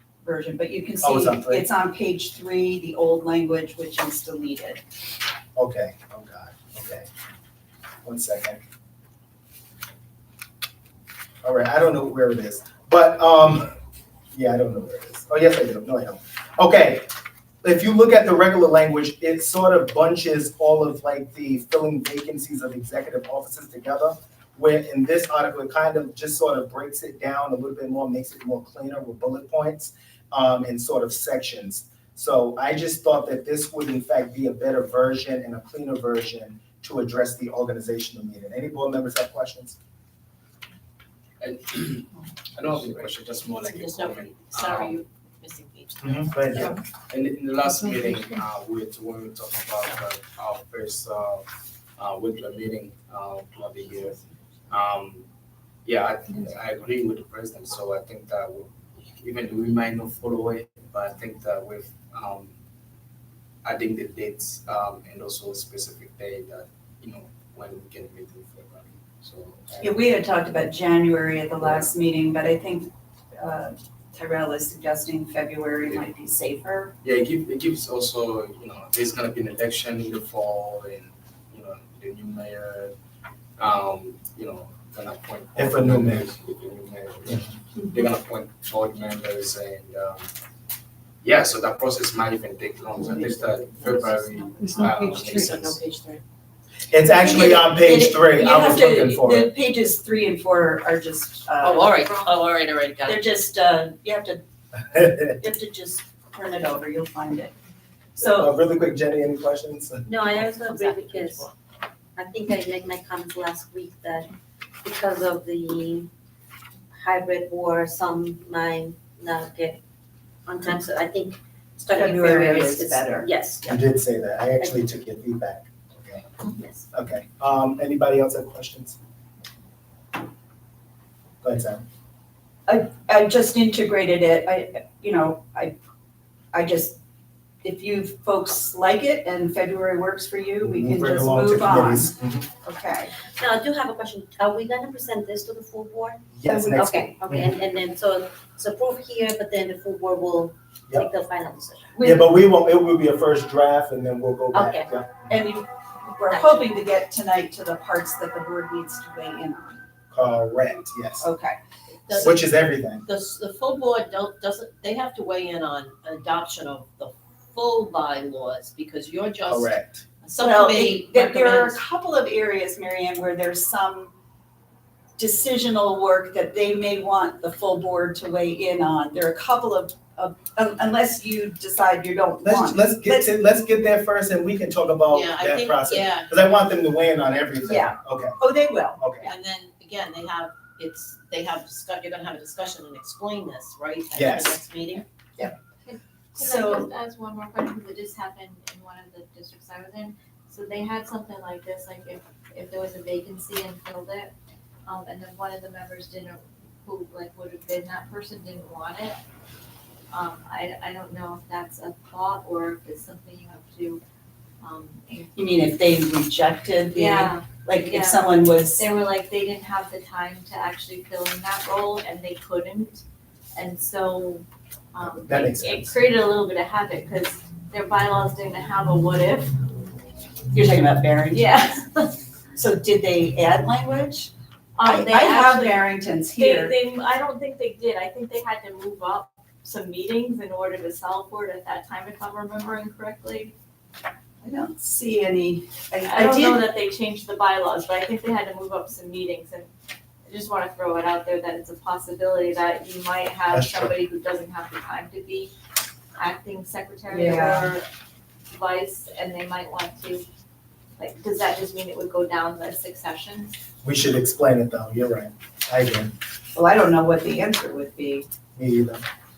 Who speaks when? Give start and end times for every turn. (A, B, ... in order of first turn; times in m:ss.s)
0:00.2-0:04.8 A
0:01.0-0:01.7 B
0:05.6-0:07.1 B
0:08.0-0:08.6 B
0:11.4-0:13.7 B
0:14.3-0:17.1 B
0:17.6-0:39.8 B
0:41.4-0:45.0 C
0:43.3-0:46.8 D
0:46.0-0:46.8 B
0:47.1-0:51.5 C
0:52.0-0:55.3 C
0:55.8-1:02.5 C
1:03.6-1:10.0 C
1:09.8-1:16.9 A
1:11.6-1:11.9 C
1:17.0-1:22.9 C
1:23.6-1:30.3 C
1:25.6-1:26.3 B
1:31.2-1:35.8 C
1:33.1-1:33.8 D
1:33.8-1:35.0 E
1:34.7-1:36.2 D
1:36.9-1:39.5 B
1:37.2-1:42.1 A
1:41.6-1:43.2 D
1:41.9-1:42.4 E
1:43.0-1:44.4 A
1:45.0-1:45.3 B
1:45.2-1:47.5 A
1:48.2-1:48.5 A
1:48.2-1:50.1 B
1:50.0-1:51.5 F
1:50.3-1:51.5 D
1:52.2-1:54.3 F
1:54.8-1:56.1 F
1:57.0-1:59.8 F
2:00.5-2:03.8 F
2:01.9-2:03.3 A
2:03.7-2:06.2 B
2:06.4-2:06.9 F
2:06.9-2:09.0 B
2:11.4-2:11.8 B
2:12.7-2:15.8 A
2:16.5-2:17.0 A
2:17.6-2:23.1 A
2:20.6-2:22.5 B
2:23.4-2:31.9 F
2:26.3-2:27.5 B
2:31.9-2:32.3 A
2:32.0-2:35.3 B
2:34.5-2:34.9 F
2:35.3-2:39.9 A
2:36.3-2:36.7 F
2:40.1-2:41.3 B
2:41.2-2:41.6 A
2:42.1-2:42.5 D
2:42.1-2:43.0 B
2:43.0-2:51.8 D
2:49.5-2:50.0 B
2:50.4-2:54.1 A
2:55.2-3:03.3 A
3:02.4-3:08.4 B
3:05.1-3:06.3 D
3:07.6-3:09.0 A
3:09.0-3:09.3 B
3:09.2-3:15.0 D
3:14.1-3:14.6 B
3:15.9-3:24.3 E
3:16.4-3:16.9 A
3:24.9-3:29.2 E
3:30.1-3:34.0 E
3:34.6-3:35.3 E
3:35.3-3:38.9 A
3:36.9-3:43.0 E
3:43.6-3:49.6 E
3:45.0-3:46.0 B
3:50.5-3:51.8 A
3:51.3-3:52.2 E
3:52.5-3:54.3 A
3:54.8-4:03.5 E
3:54.8-3:56.8 A
4:04.4-4:06.6 A
4:06.0-4:09.7 E
4:10.3-4:15.5 E
4:13.5-4:13.9 B
4:16.2-4:17.9 E
4:17.1-4:17.7 A
4:18.5-4:20.2 E
4:21.0-4:23.5 E
4:23.8-4:26.1 B
4:26.6-4:28.3 A
4:28.6-4:29.0 B